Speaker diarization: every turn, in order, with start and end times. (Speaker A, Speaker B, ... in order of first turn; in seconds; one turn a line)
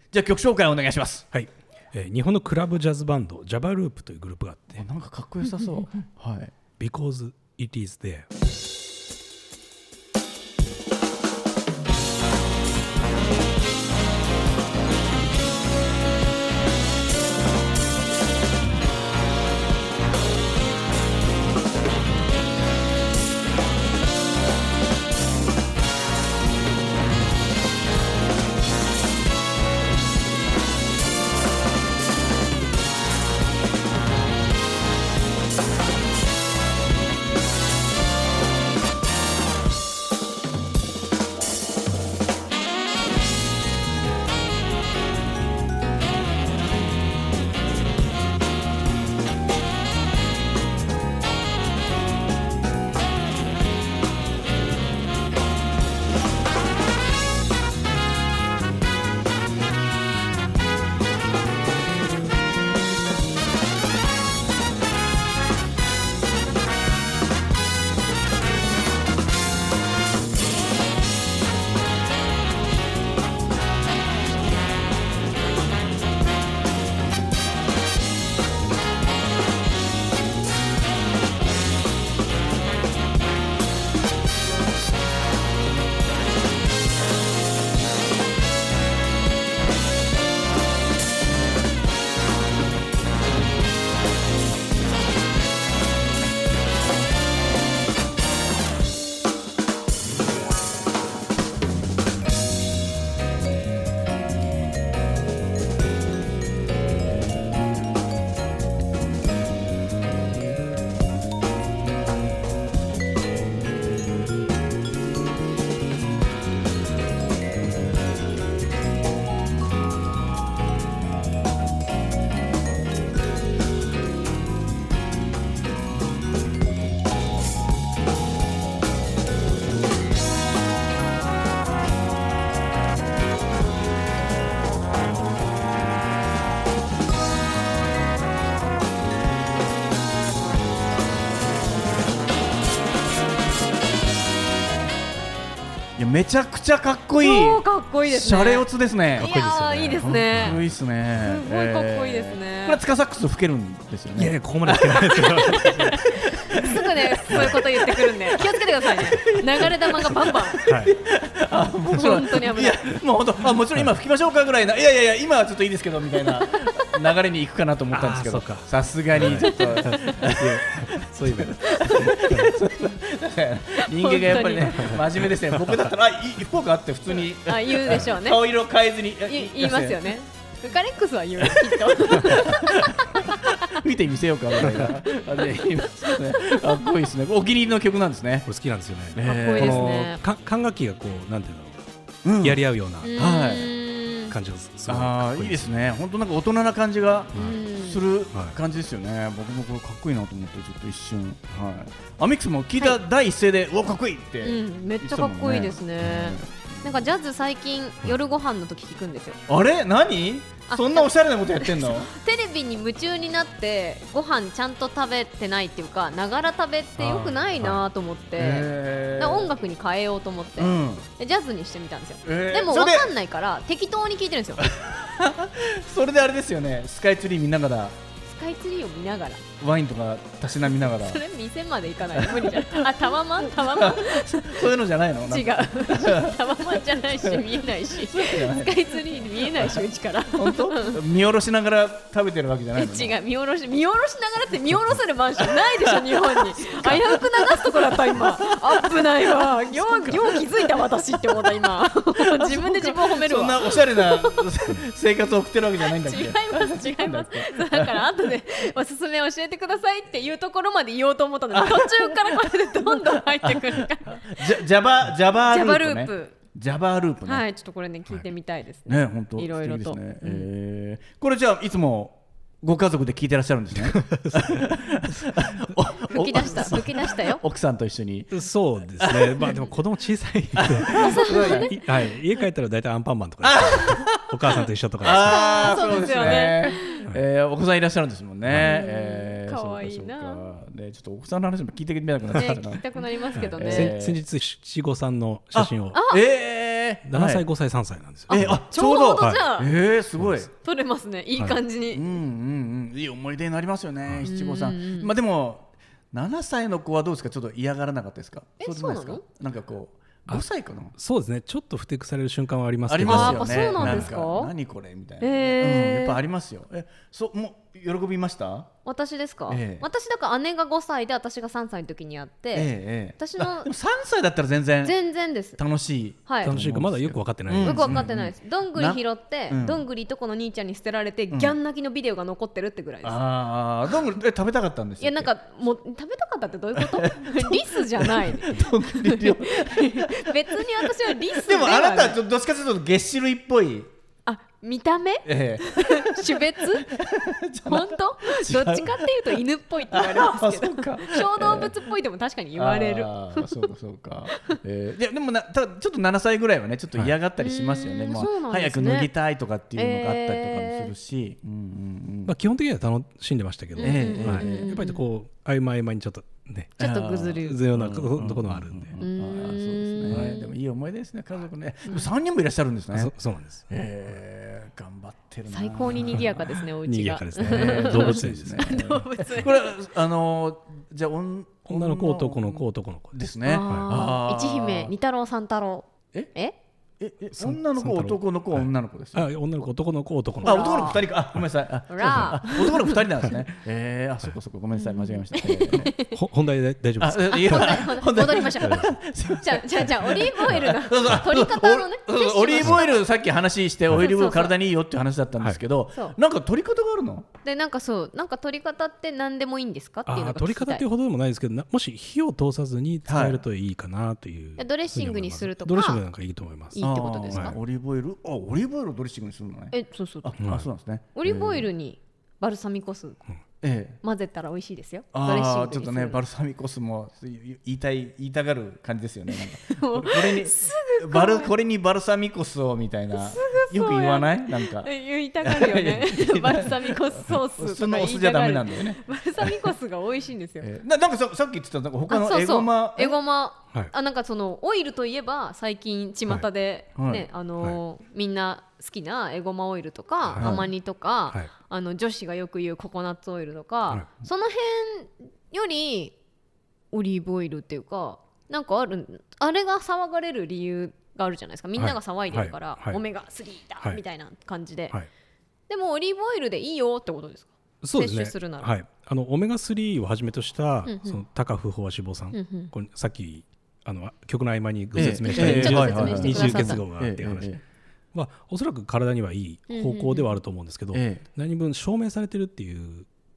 Speaker A: 0.1-1.3
Speaker B: 1.3-4.8
Speaker A: 4.8-6.5
Speaker B: 6.8-8.3
Speaker A: 146.0-149.3
Speaker C: 147.2-148.7
Speaker C: 149.2-150.6
Speaker B: 149.2-150.7
Speaker A: 150.0-180.1
Speaker C: 151.2-152.8
Speaker B: 154.2-156.1
Speaker C: 154.7-160.6
Speaker B: 157.3-157.6
Speaker B: 159.1-159.4
Speaker B: 160.1-160.9
Speaker C: 161.9-162.9
Speaker B: 163.6-163.9
Speaker C: 166.4-166.8
Speaker B: 167.9-172.6
Speaker C: 169.5-170.2
Speaker C: 171.7-172.1
Speaker C: 173.8-175.0
Speaker B: 174.7-175.9
Speaker C: 177.5-178.4
Speaker C: 179.3-183.5
Speaker A: 181.4-188.5
Speaker C: 185.5-186.6
Speaker B: 188.5-191.8
Speaker A: 189.2-189.9
Speaker C: 189.2-190.2
Speaker A: 192.2-192.6
Speaker B: 192.4-193.3
Speaker C: 193.0-194.3
Speaker A: 193.2-193.7
Speaker B: 194.3-195.8
Speaker A: 194.9-207.1
Speaker B: 197.3-197.6
Speaker C: 197.4-198.1
Speaker C: 204.4-209.4
Speaker A: 209.5-212.1
Speaker C: 210.7-224.7
Speaker A: 217.0-217.8
Speaker A: 218.4-219.5
Speaker A: 220.6-221.1
Speaker A: 222.2-223.1
Speaker A: 224.6-228.0
Speaker C: 228.2-229.4
Speaker A: 229.6-231.2
Speaker C: 230.9-234.7
Speaker A: 232.2-232.9
Speaker A: 233.5-239.8
Speaker C: 235.3-241.0
Speaker A: 240.3-243.2
Speaker C: 242.8-254.5
Speaker A: 245.4-250.7
Speaker A: 251.3-258.1
Speaker C: 255.8-264.6
Speaker A: 261.5-267.4
Speaker C: 265.5-266.4
Speaker C: 267.2-270.5
Speaker A: 268.9-278.3
Speaker B: 273.8-275.7
Speaker C: 276.1-277.4
Speaker B: 276.4-276.9
Speaker B: 278.3-286.4
Speaker A: 279.0-279.6
Speaker A: 280.6-281.8
Speaker C: 280.9-282.1
Speaker A: 283.4-294.2
Speaker C: 283.6-283.9
Speaker C: 285.0-287.1
Speaker B: 288.5-288.8
Speaker C: 288.6-290.5
Speaker B: 292.3-292.6
Speaker C: 292.4-294.0
Speaker B: 293.3-296.0
Speaker A: 295.5-297.4
Speaker C: 295.9-296.2
Speaker B: 297.1-299.5
Speaker C: 298.3-299.7
Speaker A: 298.3-300.5
Speaker B: 300.2-300.5
Speaker C: 300.6-302.2
Speaker A: 301.9-310.9
Speaker C: 304.2-305.1
Speaker C: 308.6-309.2
Speaker B: 310.3-314.1
Speaker A: 312.9-318.7
Speaker C: 313.0-314.5
Speaker C: 315.2-316.2
Speaker C: 318.9-323.7
Speaker A: 319.5-319.9
Speaker A: 322.5-325.0
Speaker C: 324.8-325.6
Speaker A: 325.6-329.8
Speaker C: 326.3-326.6
Speaker B: 326.4-328.1
Speaker C: 327.6-333.2
Speaker A: 331.3-331.6
Speaker A: 333.0-335.3
Speaker C: 335.0-342.2
Speaker A: 336.8-343.9
Speaker C: 344.3-346.9
Speaker A: 345.2-349.4
Speaker C: 347.7-353.7
Speaker A: 349.9-351.8
Speaker A: 352.6-362.3
Speaker C: 354.3-354.6
Speaker C: 357.4-359.1
Speaker C: 359.8-360.9
Speaker B: 362.3-366.8
Speaker C: 363.8-365.0
Speaker A: 363.8-364.8
Speaker C: 366.8-367.6
Speaker A: 366.8-373.1
Speaker B: 367.3-369.0
Speaker C: 369.0-370.5
Speaker B: 372.9-373.7
Speaker A: 373.7-376.6
Speaker C: 375.5-379.8
Speaker B: 376.8-379.0
Speaker A: 377.4-384.9
Speaker B: 381.7-383.9
Speaker C: 383.4-386.6
Speaker A: 387.0-389.3
Speaker B: 387.4-391.4
Speaker C: 390.4-391.1
Speaker A: 390.4-395.9
Speaker C: 391.9-393.1
Speaker B: 392.0-392.4
Speaker C: 394.8-396.2
Speaker B: 396.0-398.9
Speaker A: 397.0-407.3
Speaker C: 397.3-403.1
Speaker B: 400.5-401.2
Speaker B: 402.6-402.9
Speaker C: 404.0-404.6
Speaker C: 407.4-410.9
Speaker B: 410.1-417.6
Speaker A: 413.1-413.4
Speaker C: 414.6-416.0
Speaker C: 416.7-417.6
Speaker A: 416.8-421.7
Speaker C: 419.7-420.4
Speaker B: 420.4-420.7
Speaker C: 421.1-423.2
Speaker A: 423.6-424.0
Speaker C: 424.0-426.2
Speaker A: 425.1-439.6
Speaker C: 429.3-431.5
Speaker C: 433.1-440.7
Speaker A: 440.6-443.2
Speaker C: 442.1-456.1
Speaker A: 447.0-447.3
Speaker B: 450.2-450.7
Speaker A: 450.4-450.7
Speaker C: 456.9-465.0
Speaker B: 461.8-463.0
Speaker C: 465.7-468.7
Speaker B: 467.8-477.5
Speaker C: 470.9-471.2
Speaker C: 472.3-472.7
Speaker A: 474.9-477.6
Speaker C: 475.0-476.8
Speaker B: 478.1-483.1
Speaker C: 479.7-480.3
Speaker A: 480.9-481.2